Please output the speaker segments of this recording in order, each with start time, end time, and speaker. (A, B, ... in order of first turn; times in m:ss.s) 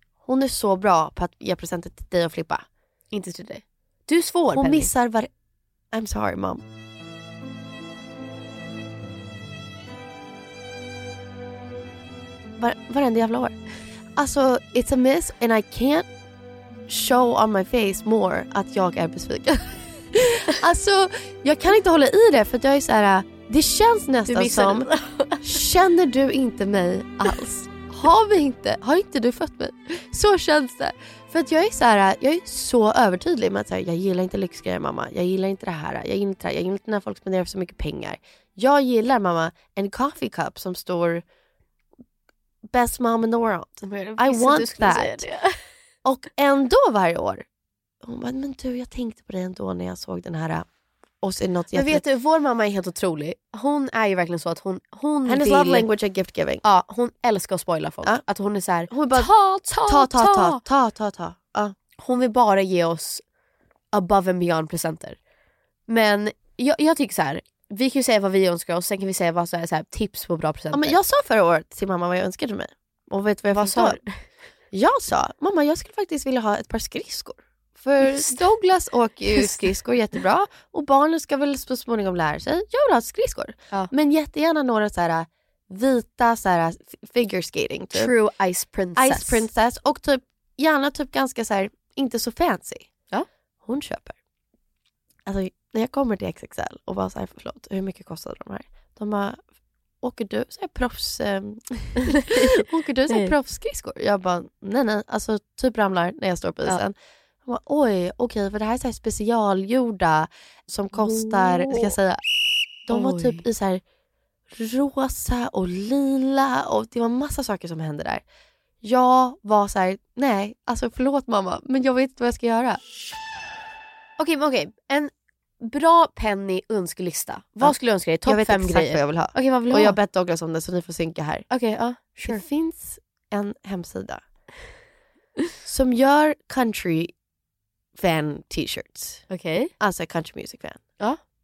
0:00.2-0:02.6 A
0:03.1-0:04.9 B
0:04.5-0:05.3 A
0:05.9-0:06.6 A
0:12.6-0:13.6 A
0:14.1-0:16.1 A
0:16.9-0:24.9 A
0:24.3-0:25.6 B
0:25.4-0:41.2 A
0:42.7-0:45.3 A
0:43.8-0:45.7 B
0:46.0-0:47.4 A
0:48.0-0:50.7 A
0:51.2-0:52.0 A
0:51.7-0:55.8 B
0:55.2-0:56.6 A
0:56.6-1:00.6 B
0:58.9-1:01.7 A
1:02.0-1:03.2 B
1:03.9-1:05.2 B
1:05.9-1:11.0 B
1:10.7-1:14.0 A
1:13.6-1:14.2 B
1:14.7-1:28.1 A
1:18.0-1:18.4 B
1:19.3-1:19.8 B
1:27.9-1:29.4 B
1:29.0-1:32.9 A
1:33.6-1:34.1 A
1:35.2-1:39.5 A
1:40.0-1:46.9 A
1:47.4-1:52.2 A
1:50.9-1:51.9 B
1:52.9-1:53.8 A
1:52.9-1:53.4 B
1:54.5-1:58.2 A
1:58.8-2:02.8 A
2:04.2-2:10.0 B
2:07.6-2:11.5 A
2:11.5-2:12.4 B
2:12.1-2:14.2 A
2:15.6-2:17.1 A
2:18.0-2:20.9 A
2:19.3-2:19.7 B